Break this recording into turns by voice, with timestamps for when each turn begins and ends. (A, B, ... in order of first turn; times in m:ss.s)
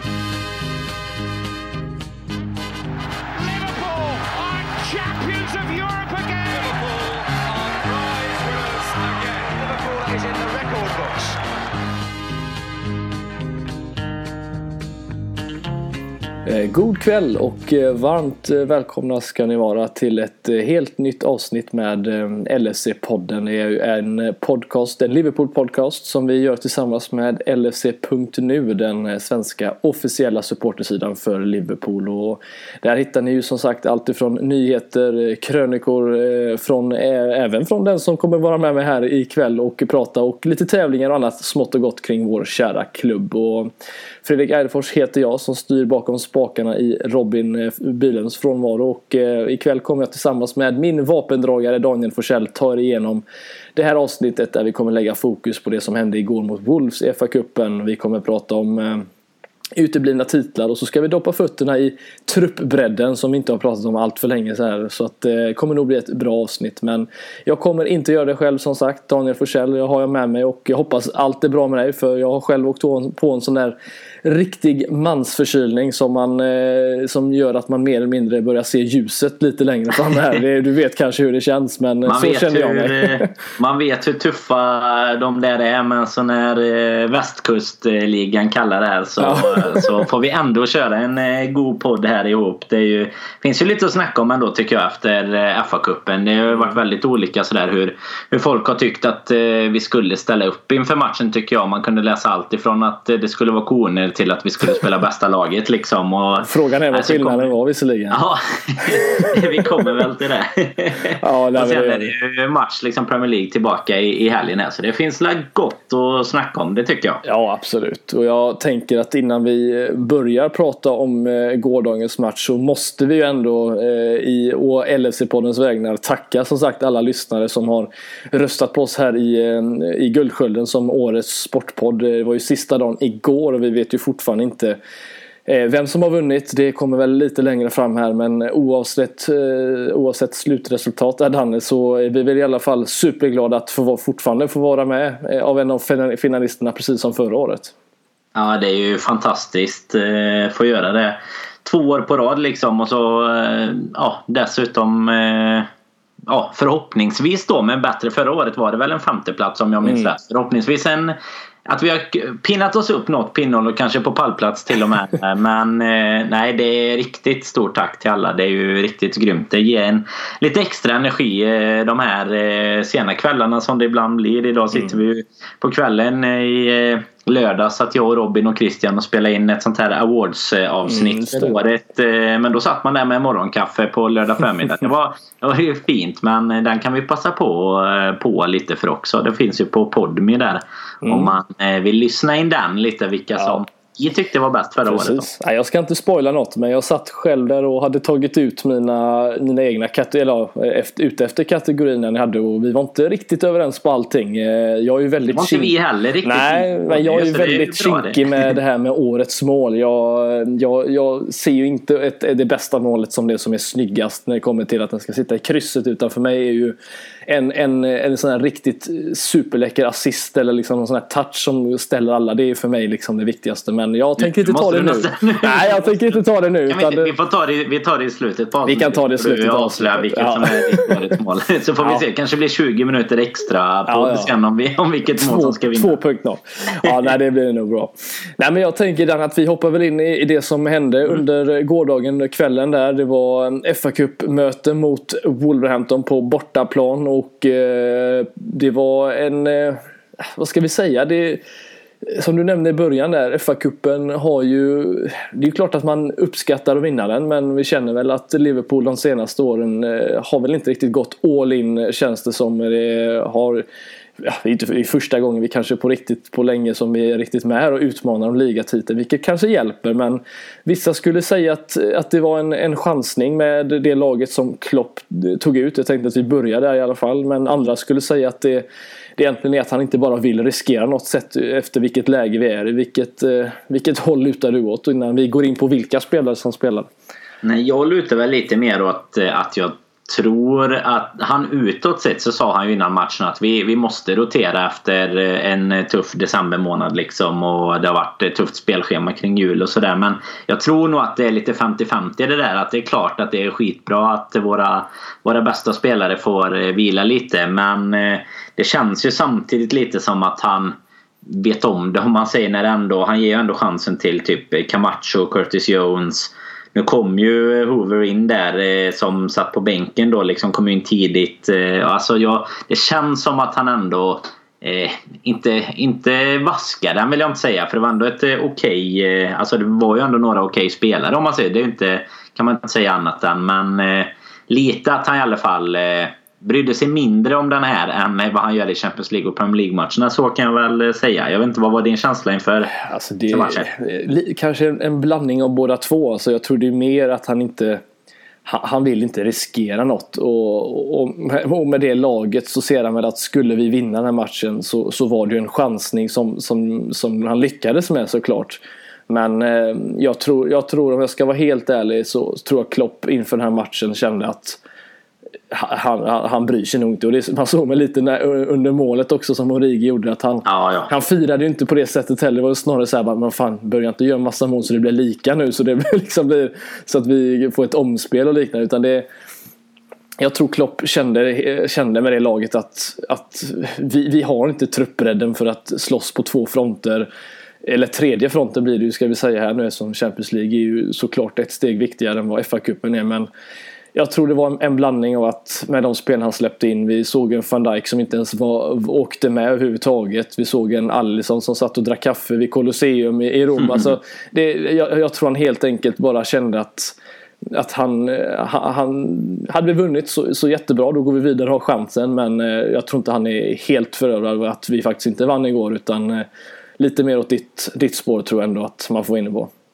0:03.3-0:11.4 A
0:16.5-0:43.7 B
0:44.2-0:53.2 B
0:53.8-0:59.1 B
0:59.8-1:23.3 B
1:22.1-1:47.5 C
1:29.2-1:30.0 B
1:46.4-1:48.2 B
1:48.1-1:57.2 C
1:48.8-1:49.4 B
1:51.2-1:52.1 B
1:57.2-2:14.8 B
2:15.5-2:27.7 B
2:28.4-2:35.7 C
2:36.3-2:41.2 C
2:41.7-3:15.3 C
3:00.9-3:01.6 B
3:11.0-3:11.3 B
3:14.9-3:36.8 B
3:25.3-3:28.5 C
3:37.3-3:47.1 B
3:44.2-3:56.0 C
3:48.6-3:51.0 B
3:53.9-3:54.3 B
3:55.1-4:09.8 B
4:10.3-4:11.4 B
4:12.0-4:23.6 B
4:24.2-4:38.7 B
4:39.2-4:46.9 B
4:47.4-5:42.8 C
5:42.8-5:47.8 B
5:43.3-5:43.7 C
5:48.5-6:04.6 B
6:05.5-6:19.1 B
6:10.4-6:10.9 C
6:20.2-6:27.1 B
6:27.6-6:33.3 B
6:33.9-6:47.0 B
6:47.5-6:56.3 B
6:56.8-6:59.5 B